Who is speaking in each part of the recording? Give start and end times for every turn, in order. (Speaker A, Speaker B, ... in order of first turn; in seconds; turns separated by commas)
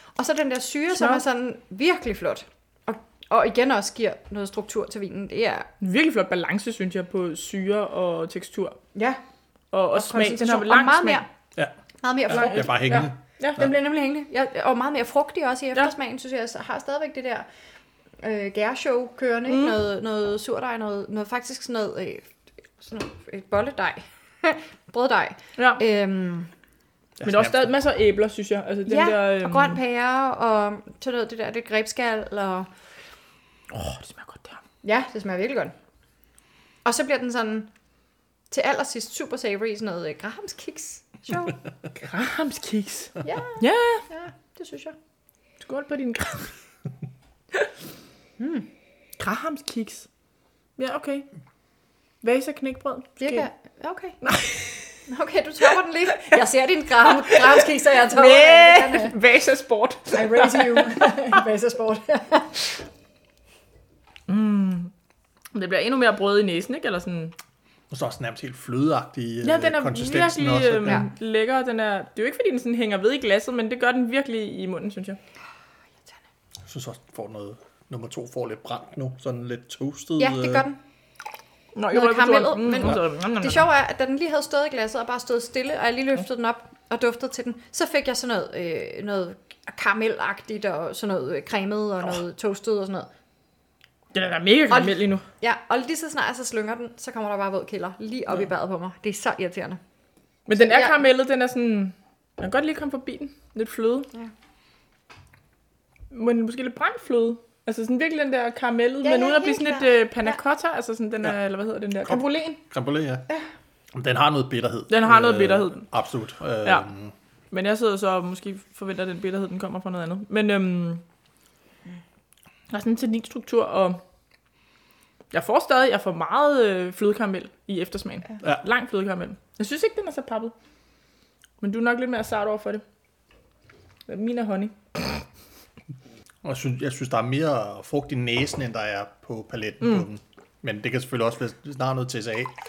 Speaker A: 0.2-5.7, Speaker B: 0.9-1.2, Speaker B: 5.8-8.8, Speaker A: 8.9-9.2, Speaker B: 9.7-11.2, Speaker A: 9.9-11.3, Speaker A: 12.0-17.4, Speaker C: 12.3-13.7, Speaker B: 12.3-13.7, Speaker A: 18.2-22.3, Speaker B: 19.5-19.8, Speaker A: 22.8-26.5, Speaker B: 25.6-25.8, Speaker C: 27.2-27.7, Speaker B: 27.2-29.8, Speaker A: 28.9-32.7, Speaker B: 33.7-34.6, Speaker A: 34.8-35.7, Speaker A: 36.8-37.7, Speaker A: 38.5-41.6, Speaker B: 42.0-44.0, Speaker A: 43.2-45.0, Speaker B: 45.6-46.5, Speaker A: 48.4-48.7, Speaker B: 49.2-50.1, Speaker B: 50.8-51.3, Speaker B: 52.2-53.4, Speaker A: 53.2-54.2, Speaker B: 54.2-55.0, Speaker A: 55.1-59.1, Speaker B: 57.1-61.3, Speaker A: 60.1-62.8, Speaker B: 64.3-64.9, Speaker B: 65.5-67.3, Speaker C: 67.9-71.0, Speaker B: 69.4-75.2, Speaker C: 76.7-80.6, Speaker A: 80.2-80.8, Speaker B: 81.7-83.7, Speaker A: 81.9-93.1, Speaker B: 94.1-95.2, Speaker A: 94.7-99.8, Speaker B: 100.5-104.1, Speaker A: 100.6-101.0, Speaker B: 106.1-112.6, Speaker A: 109.0-110.4, Speaker C: 112.0-113.2, Speaker C: 113.9-117.1, Speaker B: 114.9-115.9, Speaker B: 117.5-121.0, Speaker B: 122.7-124.0, Speaker B: 125.3-130.5, Speaker B: 131.6-132.8, Speaker B: 134.1-135.2, Speaker C: 136.4-142.5, Speaker B: 139.8-140.1